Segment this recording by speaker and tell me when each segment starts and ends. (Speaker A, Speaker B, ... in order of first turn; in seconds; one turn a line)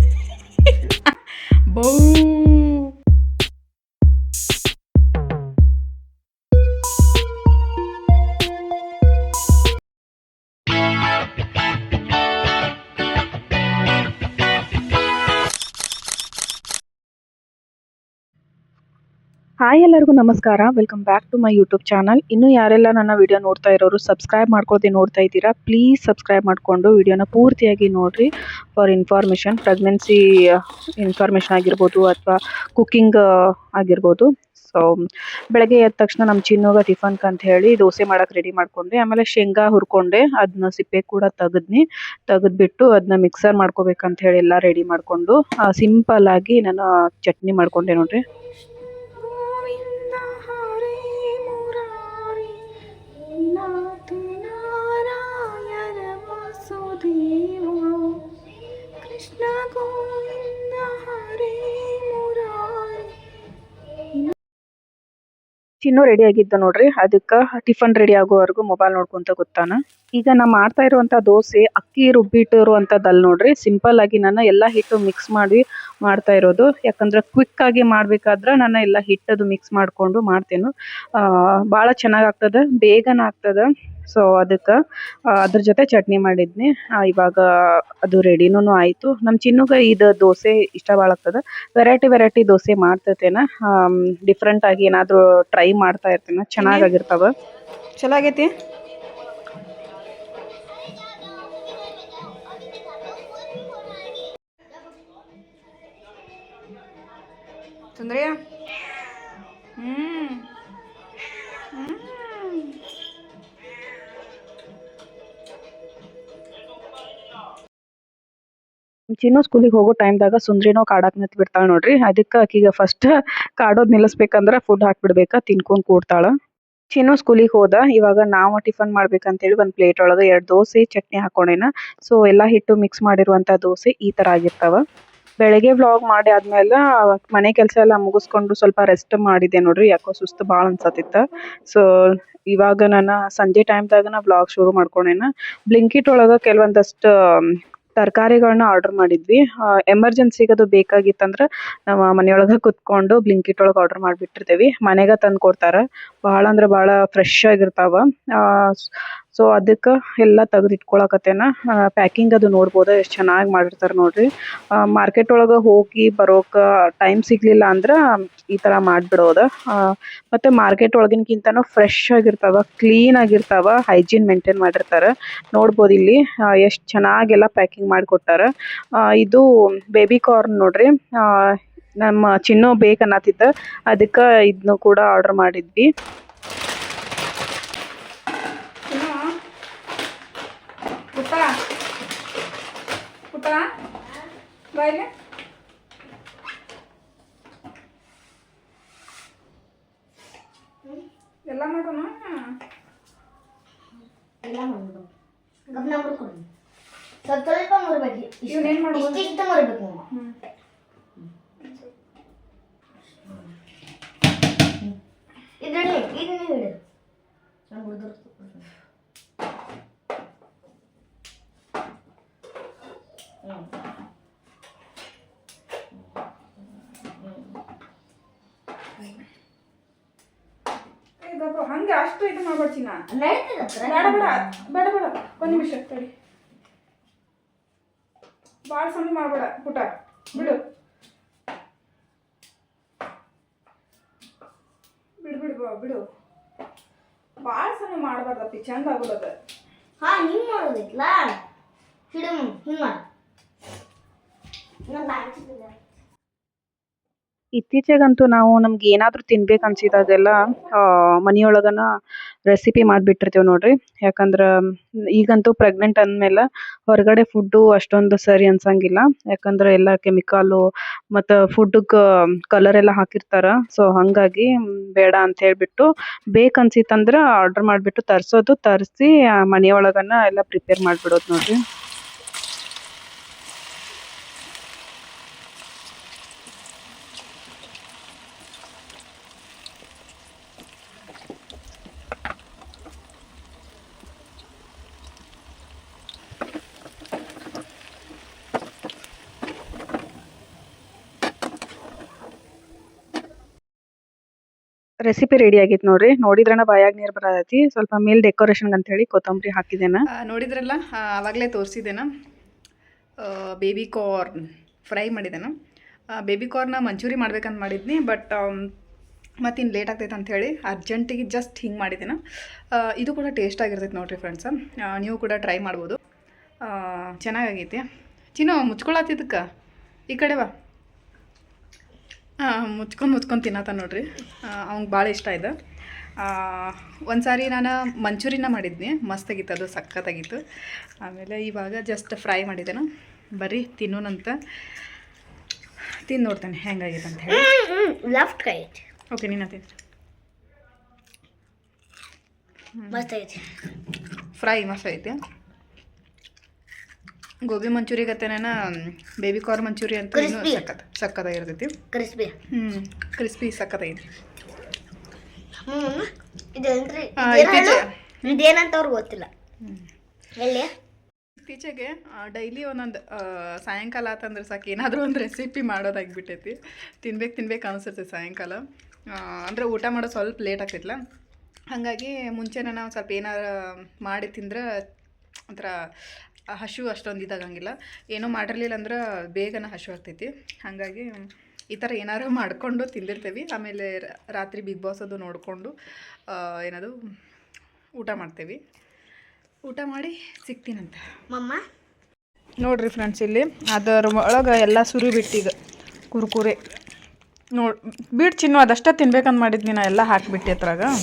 Speaker A: 0.7-1.1
Speaker A: 1.7-2.9
Speaker B: 19.6-33.2
Speaker B: 33.8-48.2
Speaker A: 49.0-52.6
Speaker A: 53.4-58.2
Speaker A: 59.0-63.1
Speaker B: 65.8-84.8
Speaker B: 85.3-97.3
Speaker A: 96.6-96.9
Speaker A: 98.0-98.5
Speaker A: 108.0-108.4
Speaker A: 109.8-110.4
Speaker A: 111.7-112.7
Speaker B: 119.2-126.3
Speaker B: 126.9-134.8
Speaker B: 135.4-168.0
Speaker B: 168.5-185.9
Speaker A: 188.9-189.2
Speaker A: 191.1-191.5
Speaker A: 193.3-193.7
Speaker A: 194.7-195.1
Speaker A: 201.5-202.4
Speaker C: 204.4-205.1
Speaker C: 205.7-206.4
Speaker C: 207.2-210.0
Speaker A: 208.5-209.3
Speaker C: 213.2-213.5
Speaker C: 215.6-216.8
Speaker C: 217.7-218.7
Speaker C: 223.4-223.7
Speaker C: 227.2-227.6
Speaker A: 231.2-233.0
Speaker C: 233.1-234.6
Speaker A: 233.8-236.1
Speaker A: 238.7-240.6
Speaker A: 245.2-246.0
Speaker A: 247.4-249.3
Speaker C: 250.0-251.4
Speaker C: 252.1-253.0
Speaker C: 254.8-255.7
Speaker B: 257.6-261.9
Speaker B: 262.5-281.6
Speaker B: 305.0-310.0
Speaker A: 310.1-312.1
Speaker A: 313.2-315.5
Speaker A: 316.2-318.7
Speaker A: 319.4-322.2
Speaker A: 322.7-326.0
Speaker A: 326.6-327.8
Speaker A: 328.4-329.4
Speaker A: 330.1-330.5
Speaker A: 332.4-335.5
Speaker A: 336.2-340.4
Speaker A: 341.0-344.4
Speaker A: 346.1-347.5
Speaker C: 347.3-348.8
Speaker A: 349.1-349.7
Speaker A: 352.8-353.1
Speaker C: 352.9-353.5
Speaker A: 354.4-355.2
Speaker A: 357.5-361.7
Speaker C: 360.1-360.6
Speaker C: 361.9-362.3
Speaker A: 362.5-364.1
Speaker C: 365.6-369.3
Speaker A: 367.2-368.4
Speaker C: 370.4-370.7
Speaker A: 371.4-381.0
Speaker A: 381.7-384.7
Speaker A: 385.5-385.7
Speaker A: 386.5-395.7
Speaker A: 396.3-396.9
Speaker A: 398.0-398.6
Speaker A: 399.7-401.0
Speaker C: 401.3-401.6
Speaker A: 402.6-405.5
Speaker A: 406.1-406.6
Speaker A: 407.6-410.9